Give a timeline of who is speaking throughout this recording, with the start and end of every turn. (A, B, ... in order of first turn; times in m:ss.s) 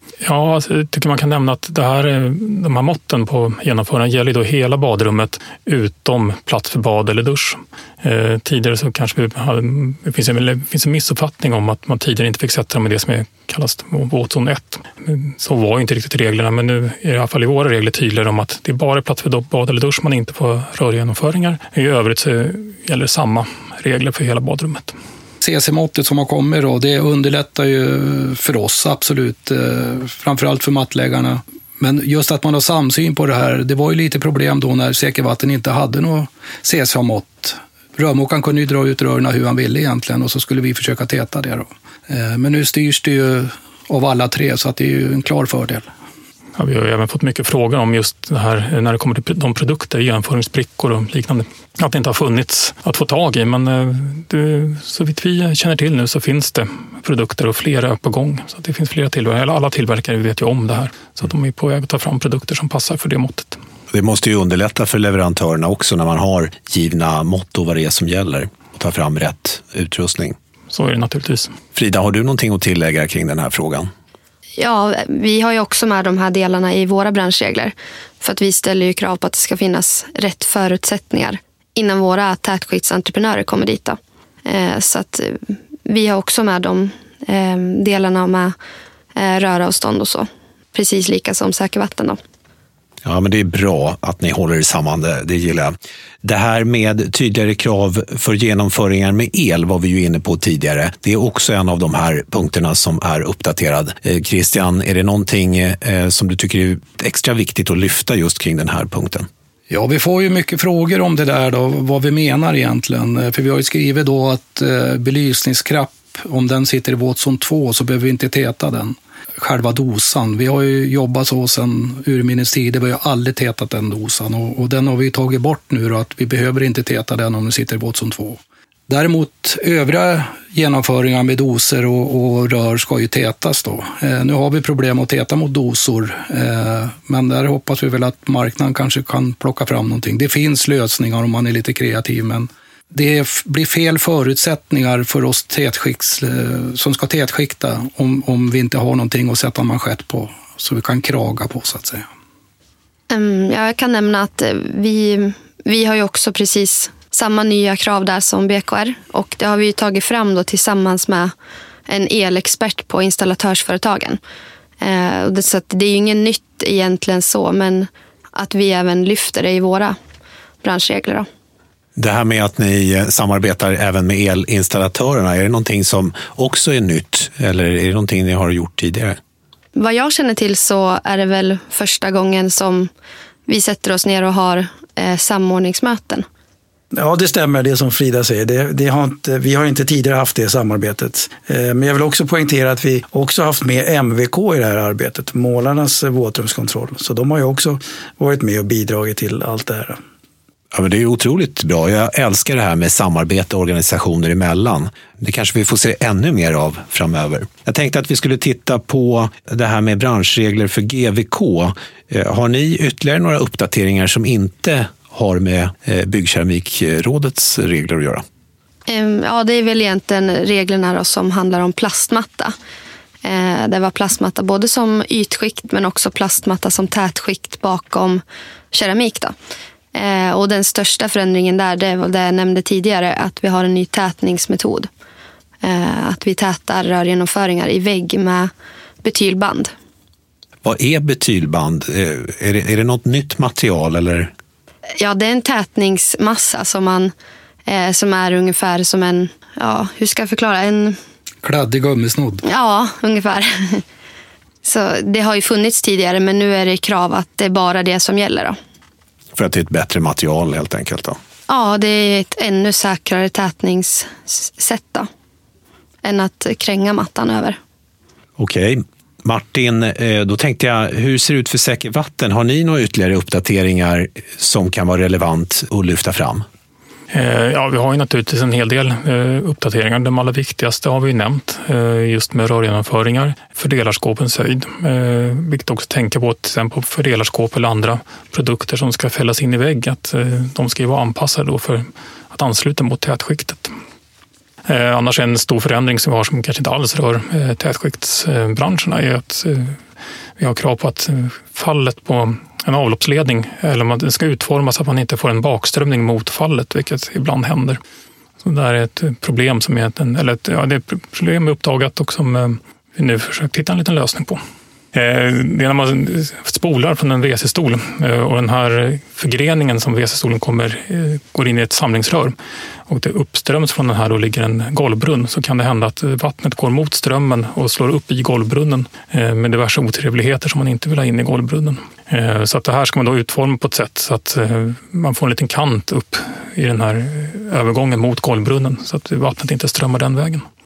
0:00.2-0:25.0 A
0:25.4-0:45.9 B
0:46.6-1:03.6 A
1:03.9-1:10.4 C
1:10.7-1:11.6 A
1:11.8-1:13.9 C
1:14.6-1:28.6 D
1:29.2-1:32.2 D
1:33.0-1:49.3 C
1:49.7-2:32.1 B
2:33.1-2:41.3 D
2:41.9-2:44.2 D
2:44.8-2:50.0 D
2:50.6-2:51.3 D
2:52.0-2:59.2 C
2:59.8-3:02.9 D
3:03.5-3:06.3 D
3:06.9-3:20.0 E
3:20.7-3:38.2 C
3:38.9-3:42.5 D
3:43.2-3:49.3 D
3:49.9-3:54.9 D
3:55.6-3:58.5 D
3:59.0-3:59.7 D
4:00.6-4:04.3 C
4:05.0-4:07.1 D
4:07.7-4:11.0 D
4:11.4-4:12.4 B
4:12.4-4:13.8 D
4:14.6-4:18.6 D
4:19.4-4:21.2 C
4:21.5-4:25.1 D
4:26.0-4:27.6 D
4:28.4-4:36.4 C
4:37.1-4:53.7 A
4:54.6-4:59.8 A
5:00.4-5:07.8 A
5:08.4-5:14.4 A
5:14.9-5:22.4 A
5:22.9-5:40.4 A